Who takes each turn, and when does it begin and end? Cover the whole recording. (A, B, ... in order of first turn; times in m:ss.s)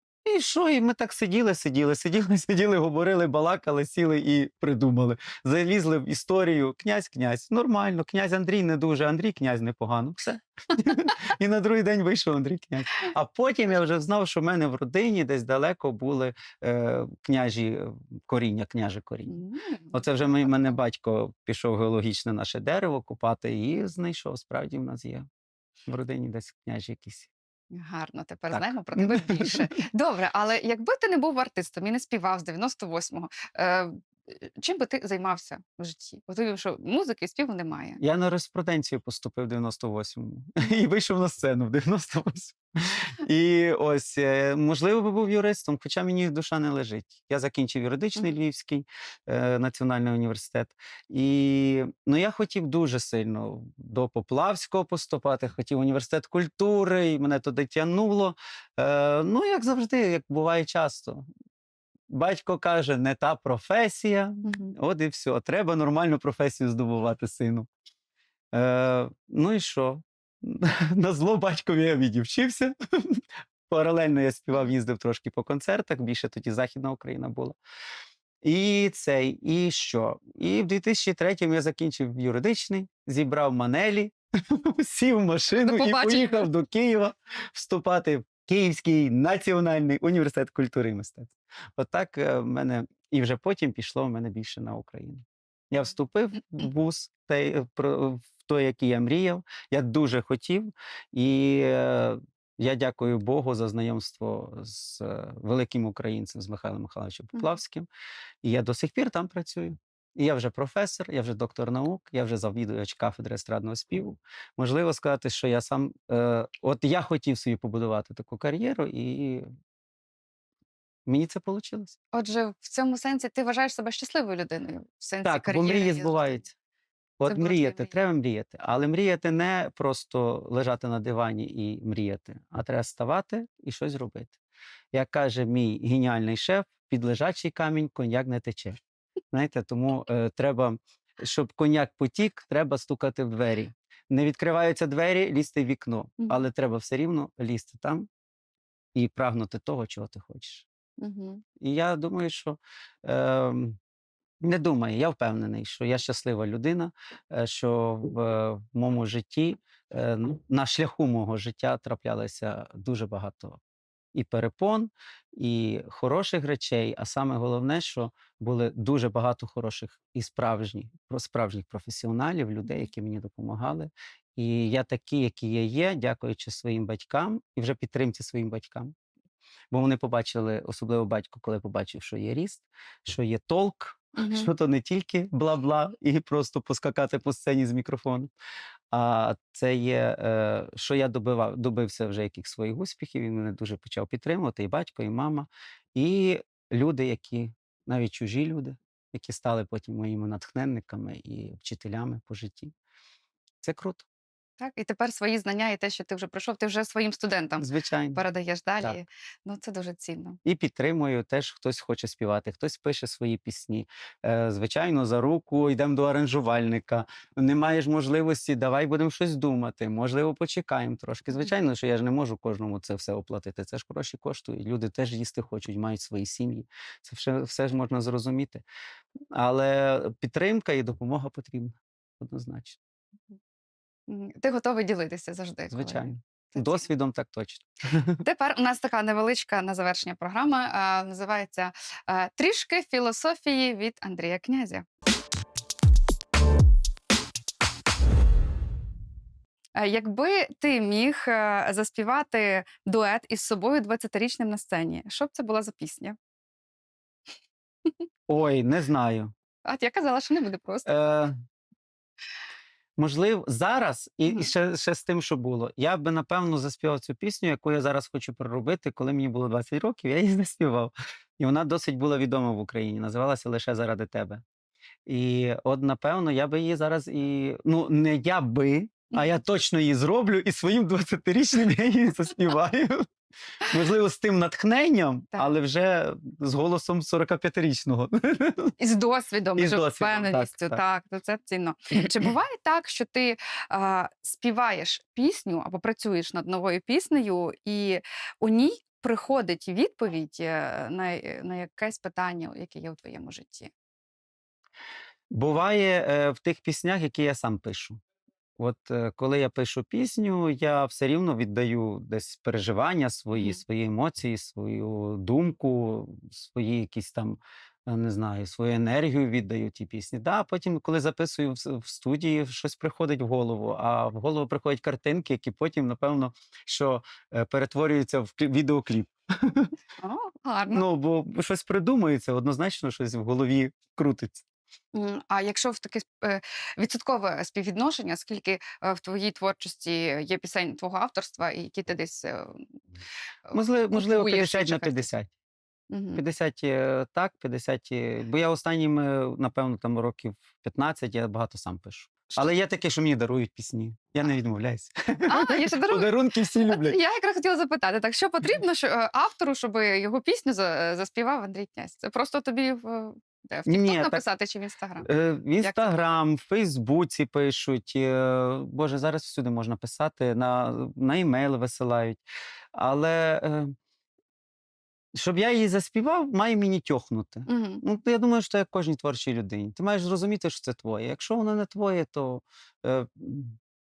0:00.2-0:19.4 A
0:19.3-0:20.6 B
0:19.9-0:25.3 A
0:25.9-0:27.3 A
0:27.7-0:38.0 B
0:28.5-0:29.7 A
0:38.0-1:01.3 A
1:02.1-1:07.7 A
1:04.4-1:04.7 B
1:08.5-1:17.6 A
1:18.4-1:47.9 A
1:25.6-1:26.5 B
1:48.4-1:59.5 A
2:01.1-2:02.0 A
2:02.1-2:06.4 B
2:05.2-2:06.5 A
2:07.2-2:14.4 A
2:07.3-2:07.9 B
2:14.9-2:18.8 A
2:19.3-2:28.1 A
2:29.0-2:30.7 A
2:31.0-2:31.4 B
2:31.6-2:33.8 A
2:34.4-2:43.6 A
2:44.1-2:58.9 A
2:59.7-3:08.3 A
3:04.2-3:04.5 B
3:08.9-3:22.7 A
3:23.6-3:24.1 A
3:24.6-3:30.4 B
3:27.6-3:28.2 A
3:30.4-3:48.6 A
3:49.3-3:52.8 A
3:54.1-3:56.9 B
3:55.7-3:58.2 A
3:58.2-4:04.8 B
4:09.8-4:16.2 B
4:18.3-4:19.3 A
4:19.6-4:20.9 B
4:20.9-4:21.4 A
4:23.0-4:34.4 A
4:35.1-4:43.1 A
4:43.6-4:48.7 A
4:48.8-5:03.7 B
4:49.6-4:50.8 A
5:05.3-5:08.0 A
5:08.6-5:29.7 A
5:13.4-5:13.6 B
5:30.0-5:30.8 B
5:30.7-5:34.4 A
5:34.9-5:42.6 B
5:43.5-5:45.1 B
5:43.5-5:45.3 A
5:45.9-5:46.2 B
5:46.2-5:57.0 A
5:55.3-6:05.1 B
6:03.7-6:04.2 A
6:05.0-6:12.2 A
6:05.6-6:06.1 B
6:12.8-6:13.7 A
6:15.2-6:23.6 A
6:17.5-6:17.8 B